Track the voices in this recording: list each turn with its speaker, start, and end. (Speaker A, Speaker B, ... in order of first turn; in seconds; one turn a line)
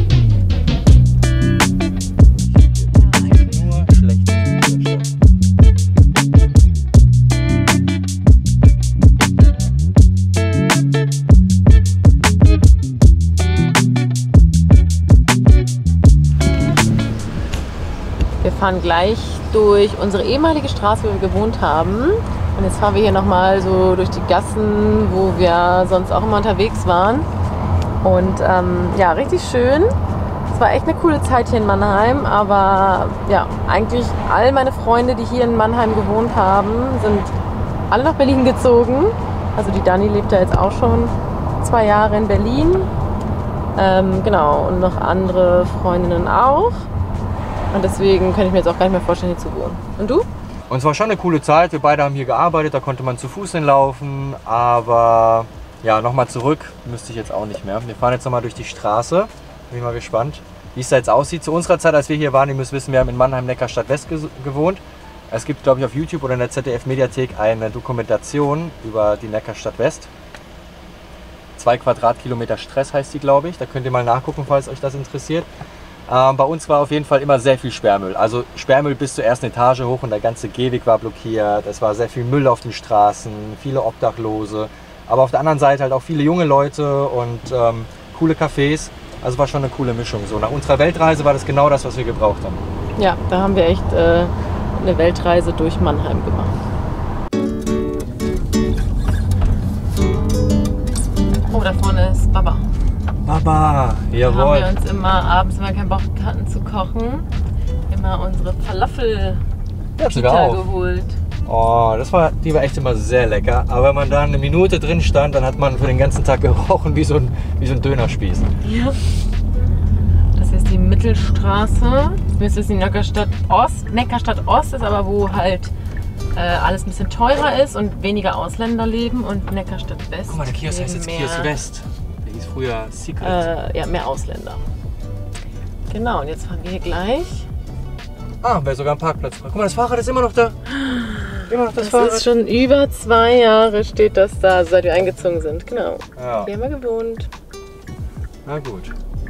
Speaker A: 2.3-5.1
Speaker B: 2.9-3.7
Speaker B: 18.4-27.3
Speaker B: 28.0-29.9
Speaker B: 30.5-37.3
Speaker B: 37.9-42.9
Speaker B: 43.8-46.9
Speaker B: 47.7-50.3
Speaker A: 50.7-70.1
Speaker A: 71.6-75.5
Speaker A: 76.1-92.6
Speaker B: 93.0-96.5
Speaker B: 101.4-102.7
Speaker A: 103.2-104.7
Speaker B: 104.2-107.3
Speaker B: 107.9-109.4
Speaker A: 110.0-110.6
Speaker B: 110.0-111.2
Speaker A: 111.5-118.5
Speaker B: 118.6-119.0
Speaker B: 120.3-125.7
Speaker B: 126.3-131.5
Speaker A: 130.3-133.4
Speaker B: 133.2-134.6
Speaker B: 135.9-137.5
Speaker A: 138.4-140.6
Speaker B: 140.7-147.3
Speaker A: 141.5-142.2
Speaker A: 146.2-146.5
Speaker A: 148.4-148.9